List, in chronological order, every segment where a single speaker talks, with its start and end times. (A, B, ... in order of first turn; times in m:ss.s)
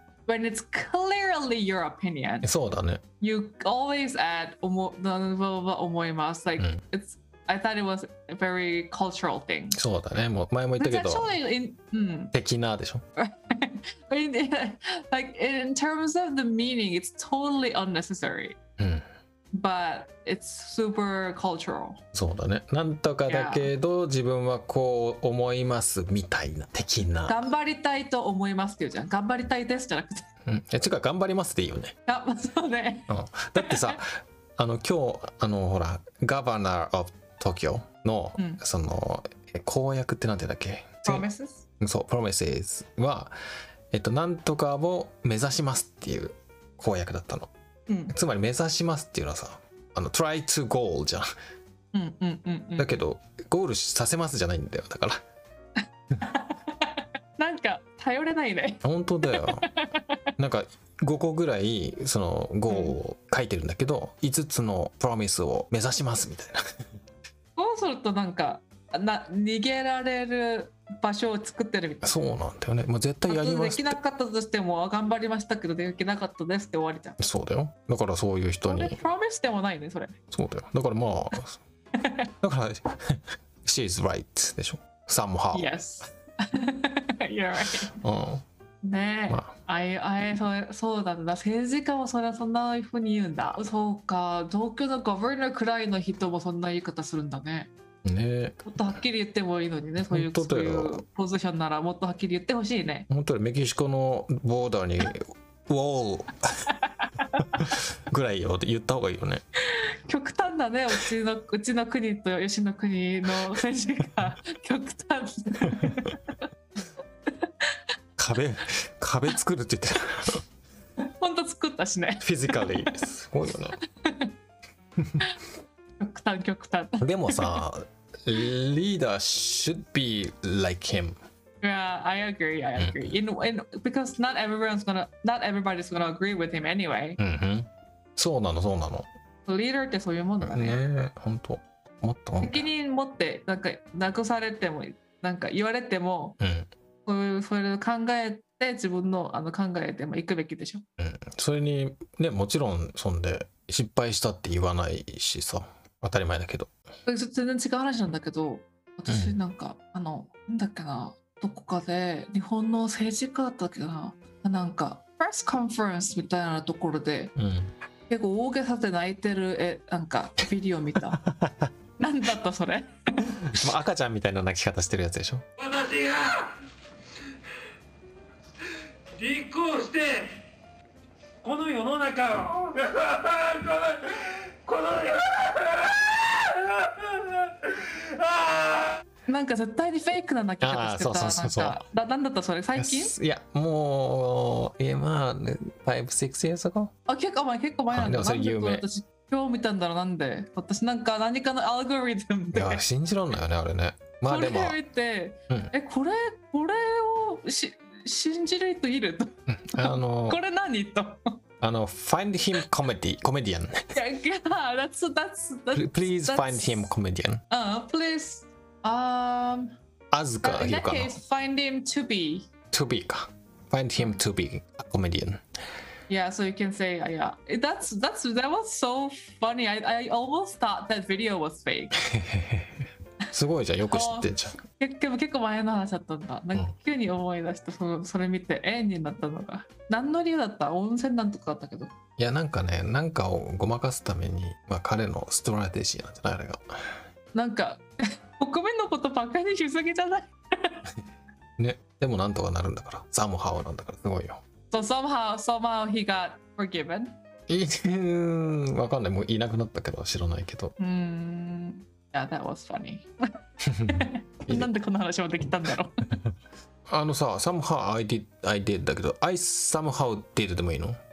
0:00.3-0:02.5 A
0:02.4-0:03.0 B
0:03.2-0:09.8 A
0:09.7-0:11.4 B
0:10.8-0:12.3 A
0:12.3-0:13.0 B
0:13.2-0:18.6 A
0:18.8-0:19.0 B
0:19.5-0:22.0 A
0:22.1-0:27.4 B
0:23.3-0:23.7 A
0:27.3-0:30.3 A
0:30.5-0:31.9 B
0:32.1-0:34.0 A
0:33.1-0:41.3 B
0:41.0-0:41.6 A
0:41.8-0:43.3 B
0:43.9-0:47.5 B
0:47.9-0:48.2 A
0:48.1-0:51.3 B
0:51.9-0:53.0 A
0:52.8-0:55.2 B
0:56.2-1:00.3 A
0:58.8-0:59.6 B
1:00.4-1:06.6 B
1:02.7-1:03.0 A
1:07.6-1:12.2 A
1:12.0-1:14.0 B
1:13.3-1:17.2 A
1:17.2-1:19.0 B
1:18.6-1:20.2 A
1:20.3-1:21.6 B
1:22.0-1:22.3 A
1:22.4-1:25.7 B
1:25.5-1:28.0 A
1:28.0-1:28.4 B
1:28.8-1:37.7 A
1:38.0-1:38.8 B
1:38.7-1:43.1 A
1:40.0-1:41.0 B
1:43.1-1:46.7 B
1:47.0-1:47.4 A
1:47.5-1:49.4 B
1:49.7-1:56.1 A
1:55.8-1:56.1 B
1:57.4-1:57.7 A
1:58.2-2:00.4 B
2:01.1-2:03.0 A
2:02.2-2:03.8 B
2:03.8-2:04.3 A
2:06.0-2:07.6 A
2:07.0-2:11.2 B
2:11.6-2:17.2 A
2:12.8-2:13.1 B
2:17.2-2:19.1 B
2:19.5-2:20.8 A
2:20.4-2:22.7 B
2:22.4-2:26.4 A
2:26.4-2:26.7 B
2:27.1-2:30.8 A
2:31.0-2:36.7 B
2:37.1-2:47.3 A
2:39.1-2:39.4 B
2:47.4-2:47.7 B
2:48.1-2:51.2 A
2:51.1-2:51.7 B
2:52.0-2:53.3 A
2:53.5-2:55.4 B
2:55.8-2:56.5 C
2:59.2-3:00.3 C
3:01.4-3:04.0 C
3:04.7-3:05.8 C
3:09.3-3:13.1 A
3:10.6-3:11.8 B
3:12.8-3:16.9 B
3:17.1-3:22.8 A
3:17.9-3:18.8 B
3:22.5-3:24.8 B
3:24.3-3:31.3 A
3:29.5-3:30.4 B
3:31.6-3:33.8 B
3:33.9-3:36.9 A
3:35.7-3:37.4 B
3:37.5-3:39.8 A
3:40.1-3:41.2 B
3:40.4-3:42.5 A
3:42.7-3:45.4 B
3:46.1-3:52.0 A
3:52.0-3:54.6 B
3:53.9-4:01.9 A
4:02.2-4:06.7 B
4:07.3-4:07.8 A
4:08.4-4:10.8 A
4:11.6-4:14.4 B
4:14.7-4:17.2 A
4:17.5-4:20.7 B
4:20.8-4:23.1 A
4:23.6-4:24.7 B
4:23.9-4:26.2 A
4:26.9-4:31.0 B